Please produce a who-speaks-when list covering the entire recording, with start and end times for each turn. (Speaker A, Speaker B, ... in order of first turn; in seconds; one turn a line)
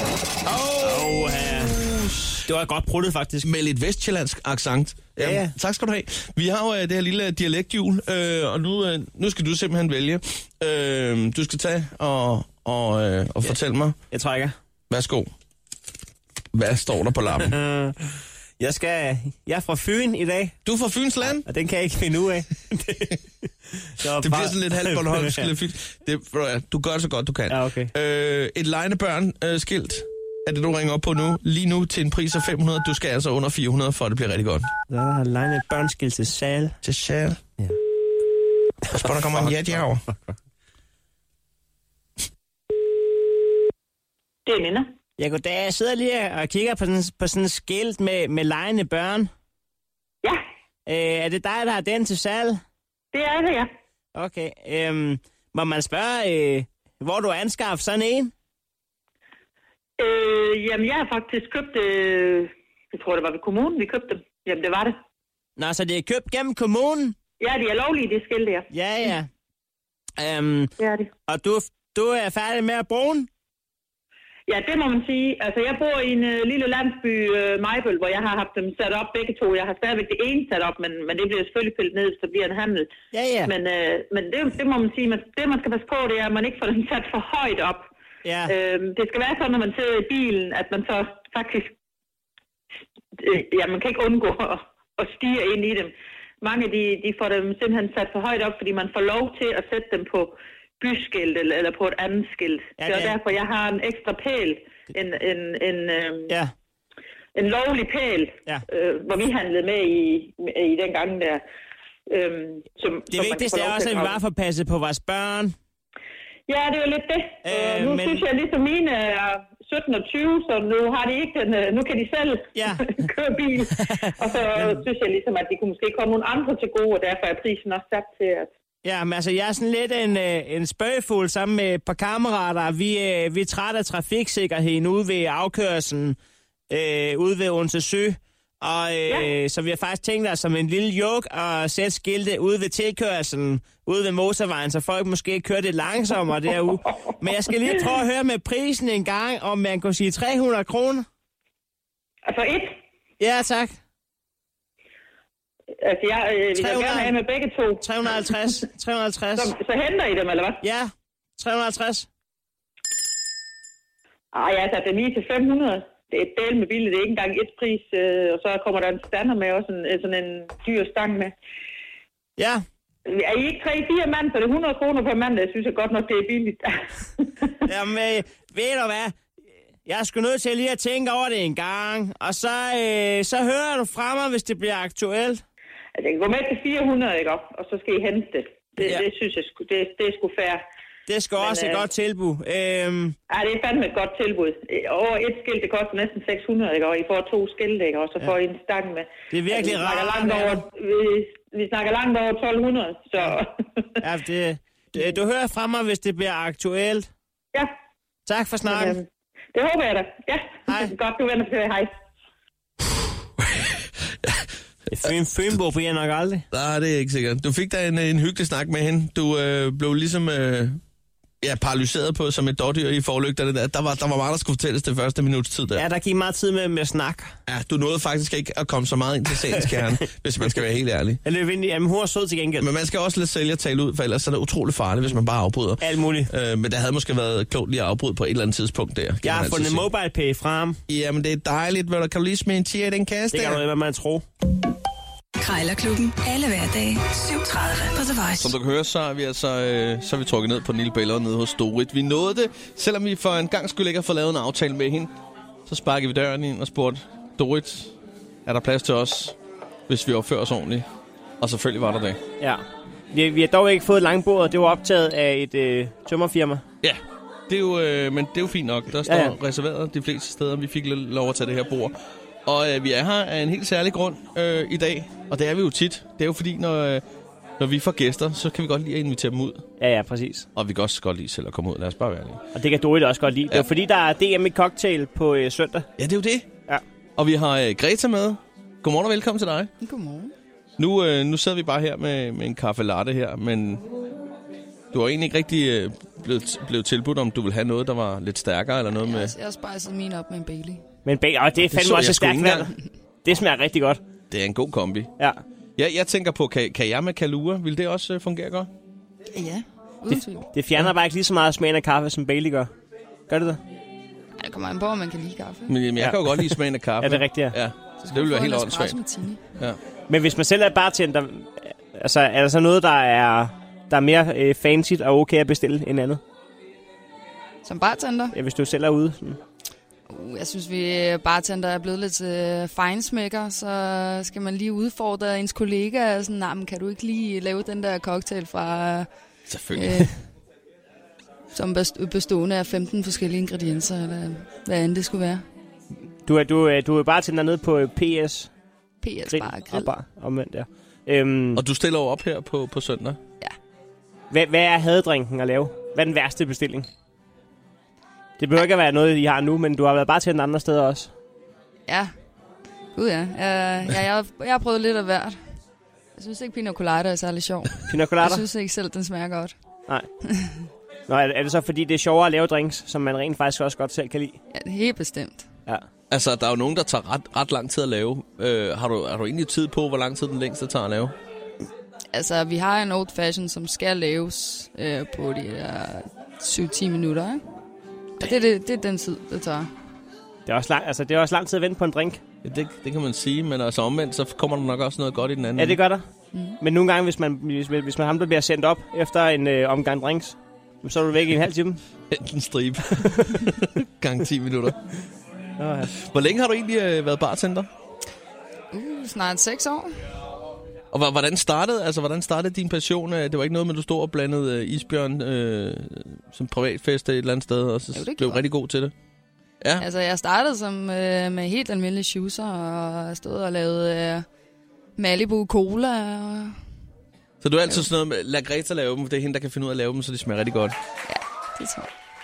Speaker A: 0.5-2.4
Speaker B: 0.8-1.8
Speaker B: 2.4-3.5
Speaker A: 3.4-14.0
Speaker B: 5.2-5.5
Speaker B: 14.1-14.5
Speaker A: 14.9-15.3
Speaker A: 16.5-17.5
Speaker B: 17.4-18.0
Speaker B: 18.6-20.6
Speaker A: 20.6-21.4
Speaker B: 21.4-25.5
Speaker A: 24.2-34.7
Speaker B: 27.5-27.9
Speaker B: 34.9-36.8
Speaker A: 36.8-37.5
Speaker A: 38.9-40.0
Speaker C: 44.5-44.9
Speaker B: 45.2-49.3
Speaker B: 50.9-52.6
Speaker C: 53.1-53.7
Speaker B: 54.1-58.3
Speaker C: 60.0-65.0
Speaker B: 65.6-67.1
Speaker C: 67.4-68.7
Speaker B: 68.7-69.3
Speaker B: 70.2-70.7
Speaker C: 70.8-71.1
Speaker B: 71.3-73.3
Speaker C: 74.5-82.9
Speaker B: 83.1-83.5
Speaker C: 83.5-87.9
Speaker B: 88.2-88.5
Speaker C: 88.5-91.7
Speaker C: 93.1-106.3
Speaker B: 102.8-103.2
Speaker C: 107.3-111.4
Speaker C: 112.1-114.2
Speaker B: 113.1-115.5
Speaker C: 116.5-128.5
Speaker B: 117.4-118.2
Speaker B: 122.5-123.0
Speaker B: 123.7-124.8
Speaker B: 128.8-136.2
Speaker B: 136.7-151.1
Speaker C: 152.2-152.8
Speaker B: 153.2-153.8
Speaker C: 155.8-157.8
Speaker B: 156.5-157.2
Speaker B: 157.8-159.5
Speaker C: 159.4-160.6
Speaker B: 160.6-162.1
Speaker C: 164.3-171.3
Speaker B: 172.4-172.6
Speaker C: 173.1-177.5
Speaker B: 177.7-179.2
Speaker B: 179.8-185.4
Speaker C: 186.0-190.6
Speaker B: 188.8-189.0
Speaker B: 191.1-193.2
Speaker C: 191.4-191.9
Speaker C: 193.3-203.8
Speaker B: 199.3-200.6
Speaker B: 204.0-207.1
Speaker B: 208.3-209.0
Speaker C: 208.6-211.9
Speaker B: 210.7-210.9
Speaker A: 213.4-214.5
Speaker B: 214.9-216.4
Speaker A: 216.5-220.8
Speaker A: 221.4-225.8
Speaker B: 225.7-227.3
Speaker A: 227.5-231.2
Speaker B: 231.2-232.7
Speaker A: 232.6-239.9
Speaker B: 235.8-236.3
Speaker B: 239.2-240.8
Speaker A: 240.9-243.6
Speaker B: 243.3-244.2
Speaker D: 245.4-248.5
Speaker A: 248.4-255.1
Speaker A: 255.7-257.9
Speaker A: 258.4-259.4
Speaker A: 259.9-260.9
Speaker A: 261.4-262.2
Speaker B: 262.4-266.6
Speaker A: 266.8-271.9
Speaker B: 269.1-269.4
Speaker A: 272.4-277.0
Speaker A: 277.6-279.6
Speaker B: 279.8-280.5
Speaker A: 280.6-282.4
Speaker B: 282.5-285.9
Speaker A: 286.0-286.5
Speaker A: 287.2-289.7
Speaker E: 289.8-290.3
Speaker A: 290.8-293.8
Speaker A: 294.9-299.3
Speaker E: 299.0-300.8
Speaker B: 301.0-302.7
Speaker A: 301.7-302.7
Speaker B: 303.2-304.0
Speaker A: 304.3-305.1
Speaker A: 305.8-308.7
Speaker E: 309.3-310.5
Speaker B: 310.1-312.7
Speaker B: 313.3-313.6
Speaker E: 314.4-315.8
Speaker A: 315.7-319.0
Speaker B: 316.0-317.6
Speaker E: 318.0-319.4
Speaker B: 320.1-326.2
Speaker E: 327.6-328.4
Speaker B: 328.3-329.4
Speaker E: 330.1-339.1
Speaker A: 339.5-340.0
Speaker E: 339.7-340.1
Speaker E: 341.5-345.4
Speaker B: 346.2-348.5
Speaker E: 349.0-349.9
Speaker B: 349.3-351.6
Speaker A: 351.5-353.2
Speaker B: 354.3-356.9
Speaker B: 358.4-361.1
Speaker E: 361.9-362.1
Speaker E: 362.9-365.4
Speaker E: 366.1-369.5
Speaker B: 367.9-368.4
Speaker E: 370.3-370.6
Speaker B: 371.1-374.4
Speaker E: 374.5-375.4
Speaker A: 376.1-381.1
Speaker E: 382.1-387.4
Speaker E: 388.2-389.7
Speaker B: 390.4-392.2
Speaker A: 392.4-395.8
Speaker B: 395.6-396.0
Speaker B: 396.6-401.8
Speaker A: 402.1-404.8
Speaker B: 405.6-405.9
Speaker A: 405.9-407.7
Speaker E: 408.7-409.9
Speaker A: 410.9-418.9
Speaker E: 417.9-418.4
Speaker E: 419.8-424.2
Speaker E: 425.0-426.6
Speaker A: 427.4-430.7
Speaker E: 431.1-431.9